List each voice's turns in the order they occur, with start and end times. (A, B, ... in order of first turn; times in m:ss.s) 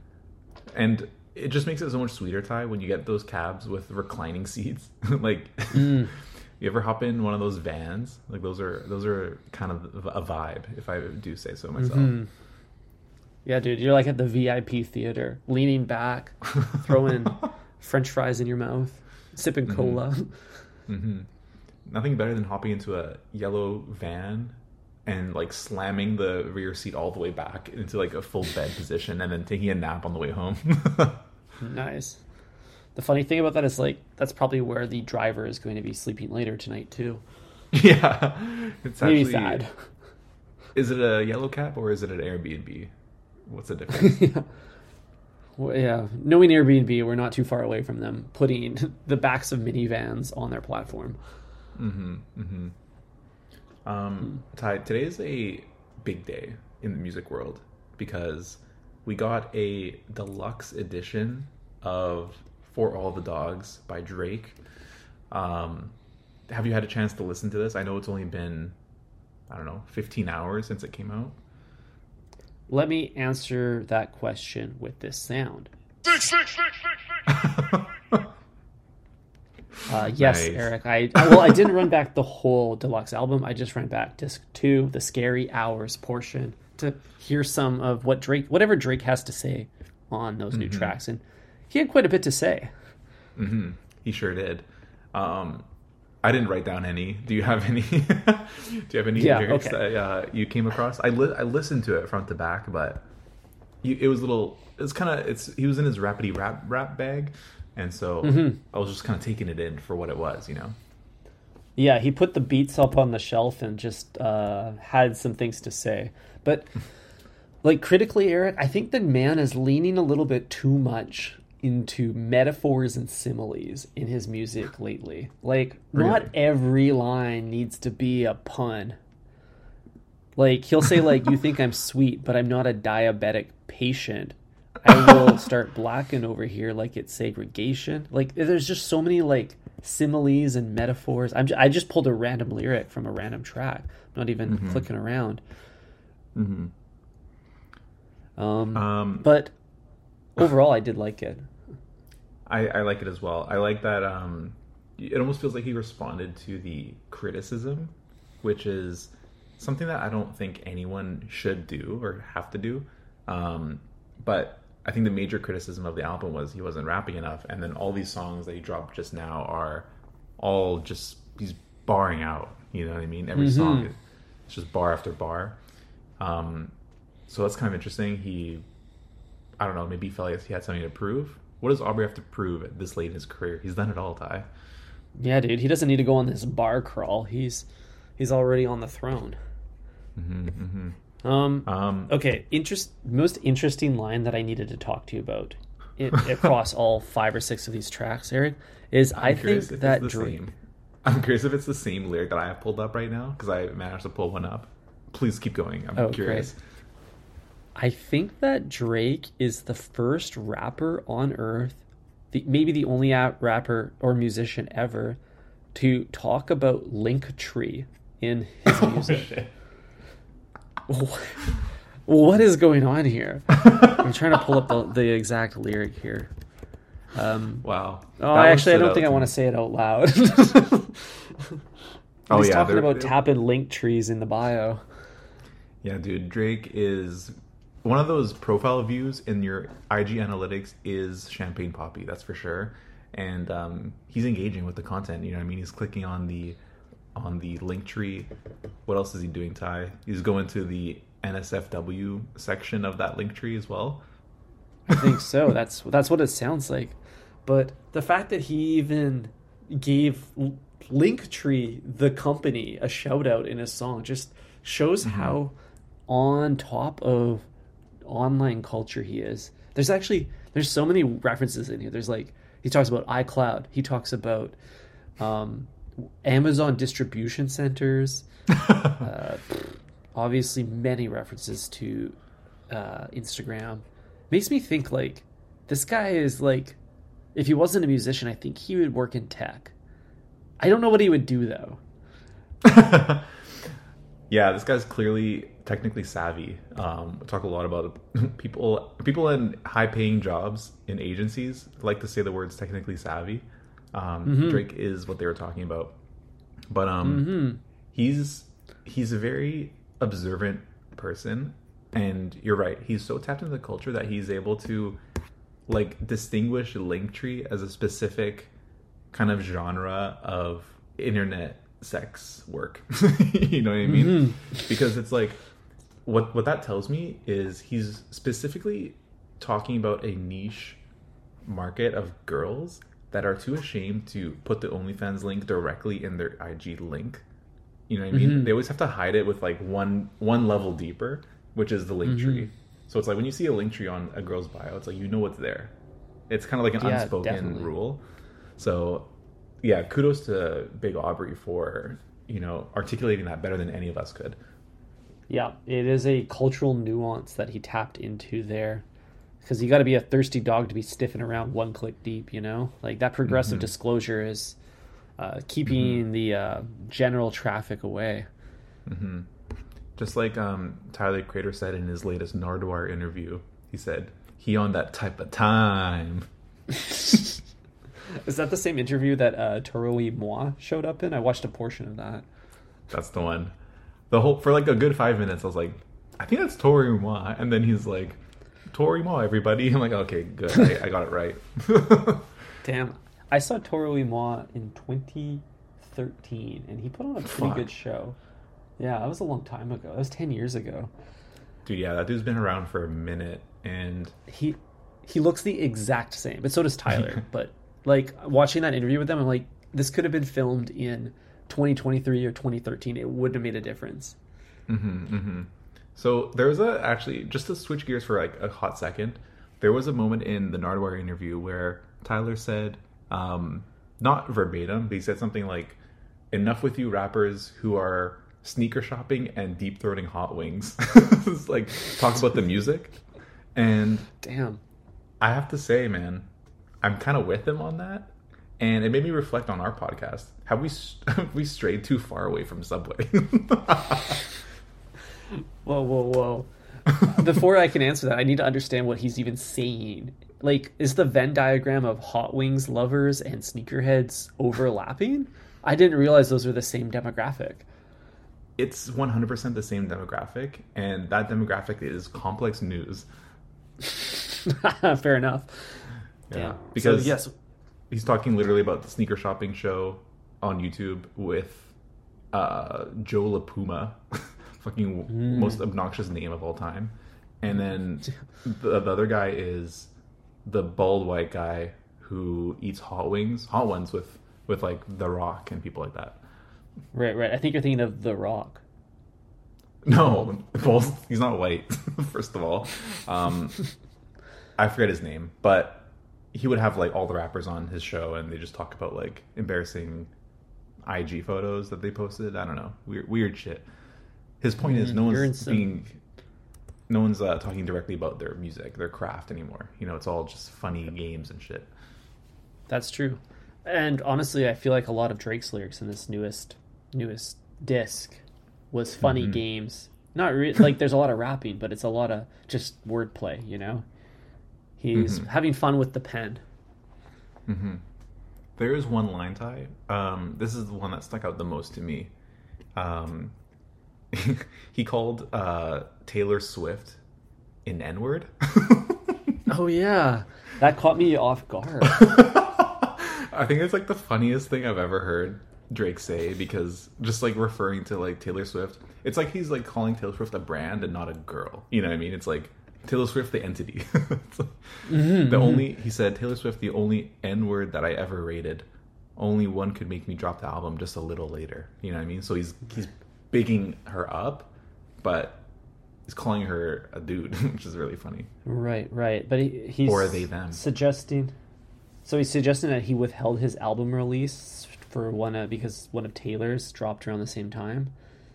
0:00.7-0:12.2 A
0:05.7-0:06.1 B
0:11.8-0:12.3 B
0:13.4-0:20.4 B
0:19.6-0:20.0 A
0:20.9-0:21.3 A
0:21.8-0:31.2 A
0:31.6-0:32.2 B
0:33.0-0:37.2 B
0:37.7-0:39.6 A
0:39.0-0:39.7 B
0:40.7-0:42.9 A
0:43.4-0:44.3 A
0:43.9-0:44.5 B
0:45.6-0:51.2 B
0:51.7-0:52.7 A
0:53.8-1:04.6 A
1:05.3-1:05.9 A
1:06.5-1:08.7 A
1:09.5-1:11.4 A
1:12.7-1:15.7 B
1:17.3-1:18.3 A
1:19.8-1:21.6 A
1:19.9-1:32.7 B
1:30.5-1:31.0 A
1:33.4-1:35.6 A
1:36.2-1:43.0 A
1:39.1-1:39.8 B
1:43.8-1:50.8 A
1:48.2-1:48.6 B
1:51.8-1:56.7 B
1:57.6-2:09.0 B
2:05.9-2:06.3 A
2:10.4-2:25.4 B
2:14.9-2:15.2 A
2:24.5-2:24.8 A
2:26.3-2:26.7 A
2:28.4-2:29.5 B
2:28.7-2:29.3 A
2:30.4-2:31.5 B
2:32.5-2:55.6 A
2:53.3-2:53.9 B
2:56.2-2:56.7 A
2:57.3-2:58.6 A
2:59.6-3:04.5 A
3:05.2-3:07.6 B
3:08.2-3:09.4 B
3:10.2-3:11.0 A
3:11.2-3:20.4 B
3:11.6-3:12.1 A
3:19.1-3:20.5 A
3:21.0-3:26.6 A
3:26.0-3:26.5 B
3:27.7-3:35.2 B
3:35.7-3:39.4 B
3:38.6-3:39.5 A
3:40.9-3:41.5 B
3:42.1-3:46.3 B
3:47.1-3:47.6 B
3:47.6-3:49.3 A
3:48.2-3:51.5 B
3:52.3-3:53.1 A
3:52.3-3:54.8 B
3:55.8-4:06.6 A
4:07.1-4:08.3 A
4:08.8-4:14.0 A
4:14.9-4:25.5 B
4:25.0-4:25.3 A
4:26.1-4:27.5 B
4:28.0-4:34.6 B
4:35.2-4:38.2 B
4:38.6-4:38.9 A
4:38.8-4:42.2 B
4:42.7-4:46.8 B
4:47.3-4:49.7 B
4:50.6-4:51.8 B
4:52.6-4:53.7 A
4:54.3-5:06.0 A
5:04.2-5:04.6 B
5:06.7-5:15.0 A
5:07.0-5:07.6 B
5:15.7-5:18.5 A
5:19.1-5:25.4 A
5:23.8-5:24.7 B
5:26.0-5:30.8 A
5:31.4-5:37.2 A
5:37.9-5:45.7 A
5:38.1-5:38.5 B
5:42.0-5:42.5 B
5:46.3-5:48.0 A
5:46.8-5:47.7 B
5:48.6-5:49.1 A
5:49.6-5:54.4 A
5:55.3-5:58.8 B
5:59.4-6:04.6 B
6:03.3-6:03.7 A
6:05.2-6:08.3 B
6:05.6-6:06.0 A
6:08.8-6:09.3 A
6:10.0-6:16.3 A
6:18.1-6:22.2 B
6:22.9-6:23.5 A
6:24.1-6:32.3 A
6:32.6-6:38.2 B
6:37.2-6:37.7 A
6:38.8-6:40.9 B
6:41.6-6:44.1 A
6:44.3-6:54.2 B
6:54.7-7:05.8 A
7:06.3-7:13.0 A
7:13.5-7:14.1 A
7:14.2-7:14.6 B
7:15.2-7:16.3 A
7:16.8-7:24.3 A
7:25.6-7:37.6 B
7:38.6-7:43.0 A
7:43.8-7:47.3 B
7:46.3-7:47.2 A
7:47.9-7:51.7 A
7:52.3-7:59.9 A
7:55.1-7:55.6 B
8:00.4-8:06.2 A
8:06.9-8:08.6 B
8:09.8-8:13.6 A
8:14.6-8:20.1 A
8:20.8-8:23.7 A
8:24.4-8:26.0 A
8:24.6-8:25.8 B
8:26.9-8:31.7 A
8:32.7-8:43.8 B
8:39.0-8:39.4 A
8:44.8-8:46.4 B
8:44.9-8:45.3 A
8:47.5-8:47.8 A
8:48.6-8:52.1 A
8:52.7-8:53.3 A
8:54.1-8:57.0 A
8:57.6-8:59.4 A
8:59.5-9:02.1 B
9:01.8-9:18.6 A
9:14.8-9:15.7 B
9:19.2-9:25.4 A
9:26.1-9:28.3 A
9:28.4-9:31.3 B
9:29.8-9:30.6 A
9:32.0-9:37.9 B